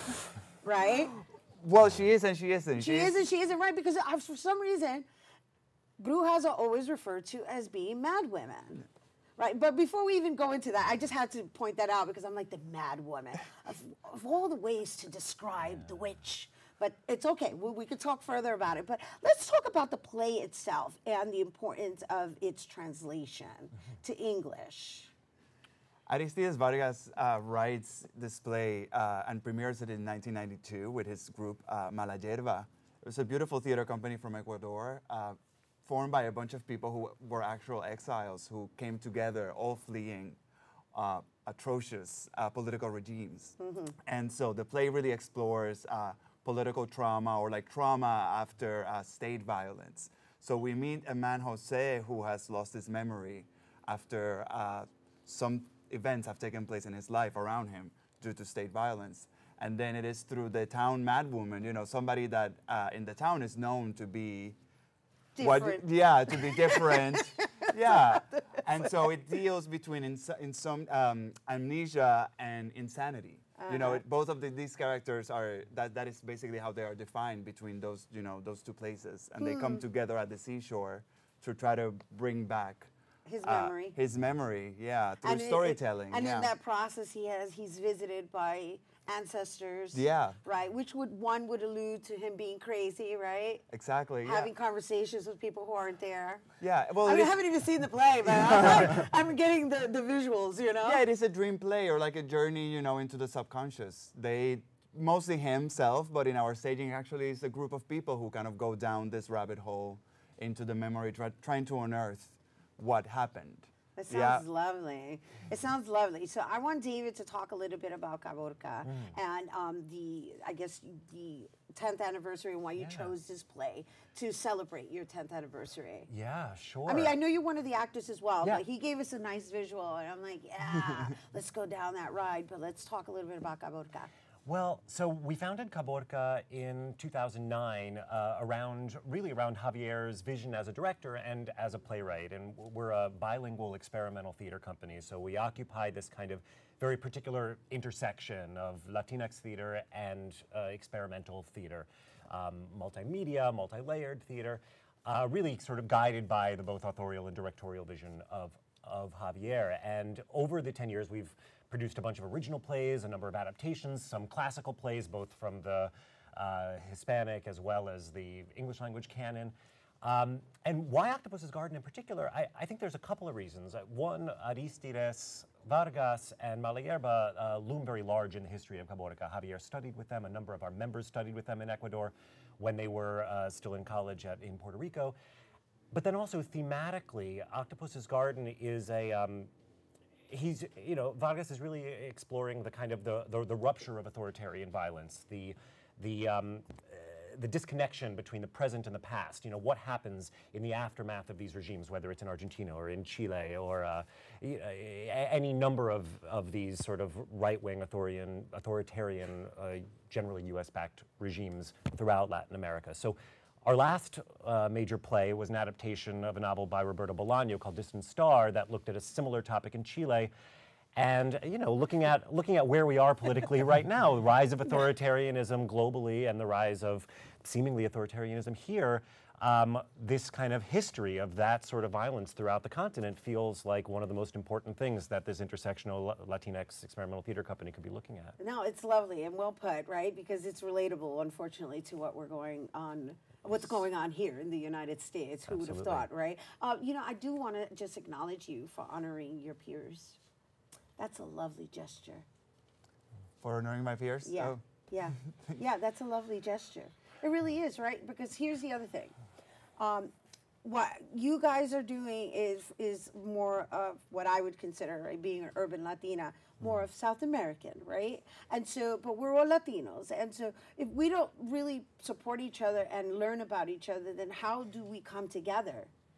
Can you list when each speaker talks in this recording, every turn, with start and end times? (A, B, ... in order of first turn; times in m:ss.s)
0:00.6-0:01.1 A
0:01.6-0:03.2 B
0:02.8-0:05.0 A
0:06.0-0:08.8 A
0:09.4-0:25.1 A
0:26.1-0:40.4 B
0:40.9-1:04.6 B
0:43.6-0:43.9 A
1:05.3-1:09.1 A
1:05.4-1:22.9 B
1:13.6-1:14.0 A
1:19.4-1:19.8 A
1:23.3-1:24.0 A
1:23.4-1:26.5 B
1:25.2-1:33.6 A
1:29.9-1:30.4 B
1:33.7-1:34.5 B
1:34.2-1:36.4 A
1:36.6-1:37.3 B
1:37.0-1:41.0 A
1:40.8-1:54.4 B
1:54.0-2:06.1 A
1:58.8-1:59.1 C
2:02.8-2:03.1 C
2:06.1-2:07.1 C
2:06.8-2:14.1 A
2:14.4-3:05.2 C
3:05.9-3:09.5 C
3:10.3-3:40.3 C
3:41.0-3:58.4 C
3:58.4-4:10.2 A
4:05.5-4:06.0 C
4:11.0-4:12.2 A
4:13.4-4:14.6 B
4:14.2-4:19.1 A
4:19.8-4:35.9 A